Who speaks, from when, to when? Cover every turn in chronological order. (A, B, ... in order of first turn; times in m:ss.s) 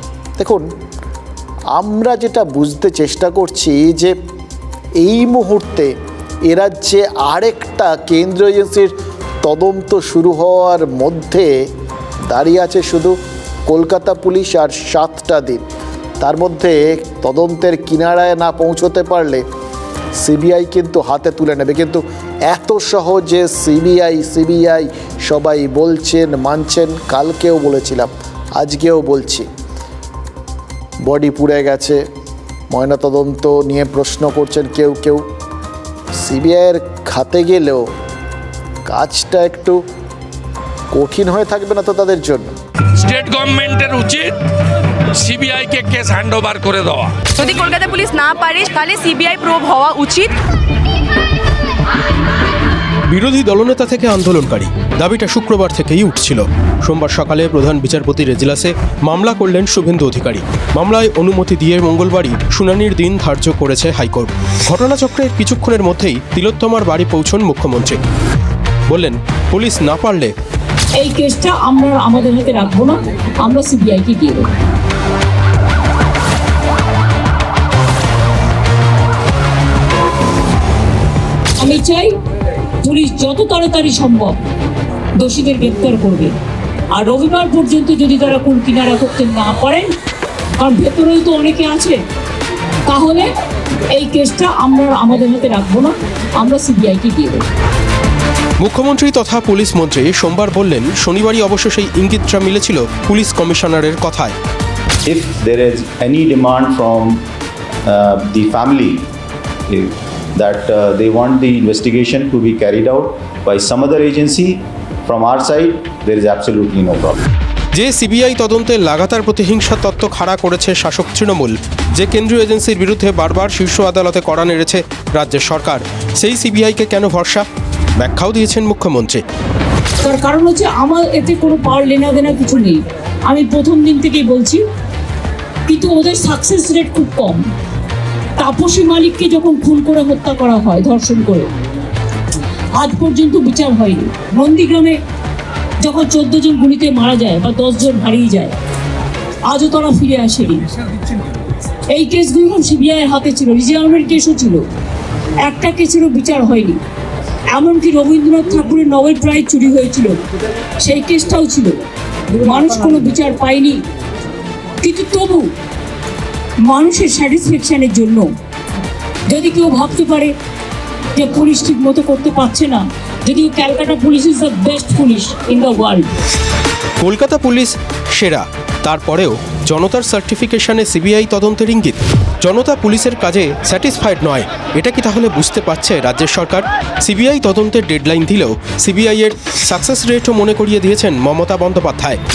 0:00.4-0:00.6 A
0:01.7-0:04.1 A
0:05.0-0:05.9 A
0:06.5-0:11.7 A
0:12.3-0:13.2 A
0:13.7-0:15.6 A
0:16.2-0:19.4 A
0:20.2-0:29.5 A
0:31.0-0:32.0 A
0:32.7-0:35.2 A
0:36.2-0:37.9 A
0:38.9-0:39.8 A
0:40.9-0:42.5 A
0:42.9-0:44.4 B
0:45.1-0:47.3 B
0:47.4-0:50.3 C
0:53.1-1:08.0 D
1:08.9-1:10.3 D
1:11.0-1:14.5 E
1:21.6-1:22.1 E
1:22.8-1:24.4 E
1:25.2-1:26.3 E
1:27.0-1:29.9 E
1:30.6-1:32.0 E
1:32.9-1:33.3 E
1:34.0-1:37.4 E
1:38.6-1:44.4 D
1:45.1-1:47.2 F
1:48.0-1:49.0 F
1:50.4-1:54.6 F
1:55.1-1:57.2 F
1:57.7-2:07.4 D
2:08.0-2:09.2 D
2:10.0-2:14.6 E
2:15.7-2:17.5 E
2:18.4-2:21.5 E
2:22.8-2:25.0 E
2:25.8-2:28.6 E
2:29.5-2:30.7 E
2:31.9-2:34.7 E
2:35.4-2:36.8 E
2:37.5-2:40.2 E
2:40.8-2:41.8 E
2:42.3-2:43.8 E
2:44.8-2:45.5 E
2:46.7-2:48.3 E
2:49.3-2:50.3 E
2:51.2-2:56.1 E
2:57.0-3:12.2 D